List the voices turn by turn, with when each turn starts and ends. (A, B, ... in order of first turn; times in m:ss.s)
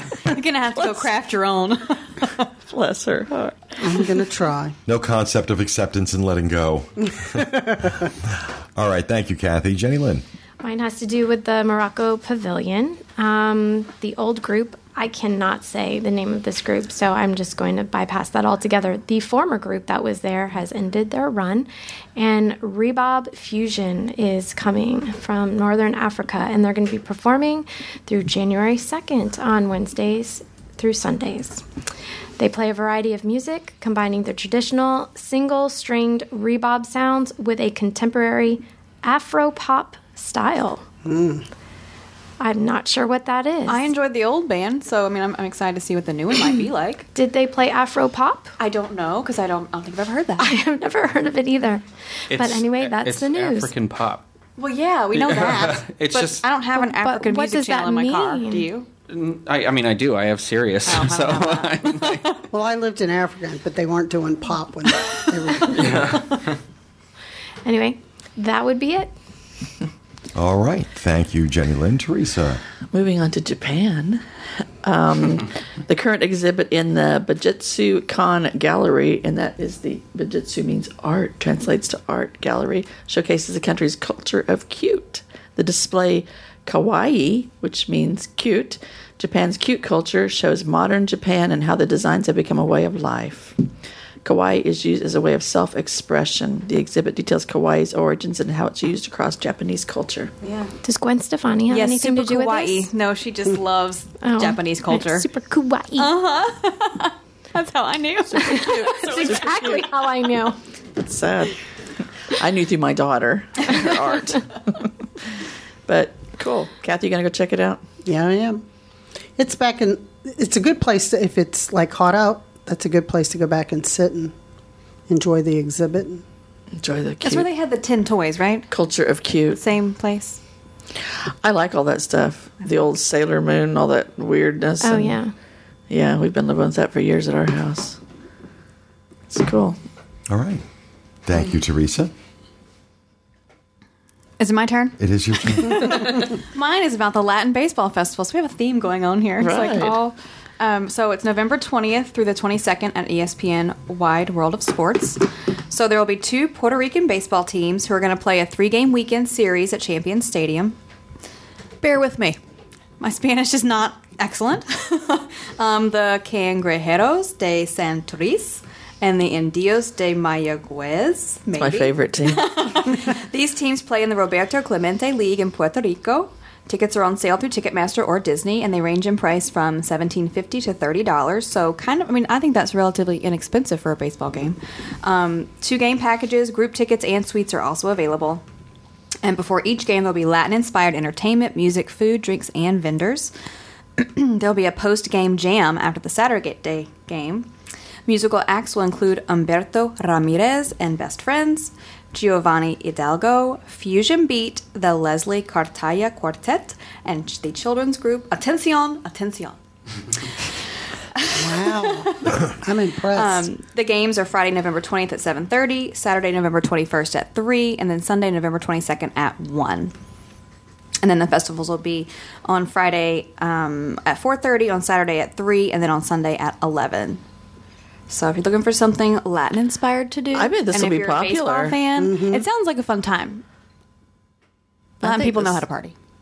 0:00.2-0:02.5 A
0:00.8-0:01.1 B
0:02.7-0:04.1 B
0:03.8-0:04.8 C
0:04.9-0:10.2 D
0:07.2-0:08.1 C
0:10.6-0:31.6 E
0:32.4-0:40.8 E
0:41.0-0:41.4 C
0:42.4-0:43.9 E
0:43.7-0:47.1 A
0:47.2-0:48.5 E
0:48.6-0:50.5 A
0:50.4-0:53.7 E
0:52.3-0:54.2 F
0:54.6-0:58.9 A
0:55.1-0:56.4 F
0:56.8-0:58.7 E
0:59.1-1:02.3 F
1:00.9-1:02.4 A
1:02.5-1:06.2 C
1:07.6-1:09.1 E
1:10.4-1:12.6 D
1:12.9-1:33.6 B
1:34.2-1:40.3 B
1:40.4-1:40.7 A
1:40.8-1:42.9 E
1:41.7-1:45.3 A
1:44.2-1:46.1 E
1:46.0-1:49.8 A
1:48.3-1:50.0 B
1:48.4-1:50.6 E
1:51.0-1:51.6 B
1:52.3-1:55.2 B
1:55.9-1:57.8 B
1:58.0-1:58.6 C
1:59.4-2:04.4 C
2:05.1-2:06.2 C
2:06.8-2:07.5 B
2:07.2-2:08.7 A
2:08.7-2:09.6 B
2:09.6-2:10.4 A
2:11.4-2:15.2 B
2:14.8-2:15.3 E
2:15.9-2:18.0 B
2:19.3-2:19.8 B
2:20.3-2:20.6 D
2:21.3-2:22.1 D
2:24.4-2:40.8 A
2:25.0-2:26.2 D
2:29.4-2:30.0 B
2:41.8-2:42.4 A
2:43.0-3:08.4 A
2:51.6-2:52.9 B
3:09.2-3:13.3 A
3:14.0-3:17.5 A
3:18.1-3:29.6 A
3:31.2-3:32.4 A
3:31.3-3:33.5 C
3:33.1-3:39.9 A
3:41.0-3:47.2 A
3:48.1-3:53.4 A
3:50.3-3:51.8 B
3:52.0-3:52.5 C
3:55.0-3:55.6 B
3:55.0-3:55.9 A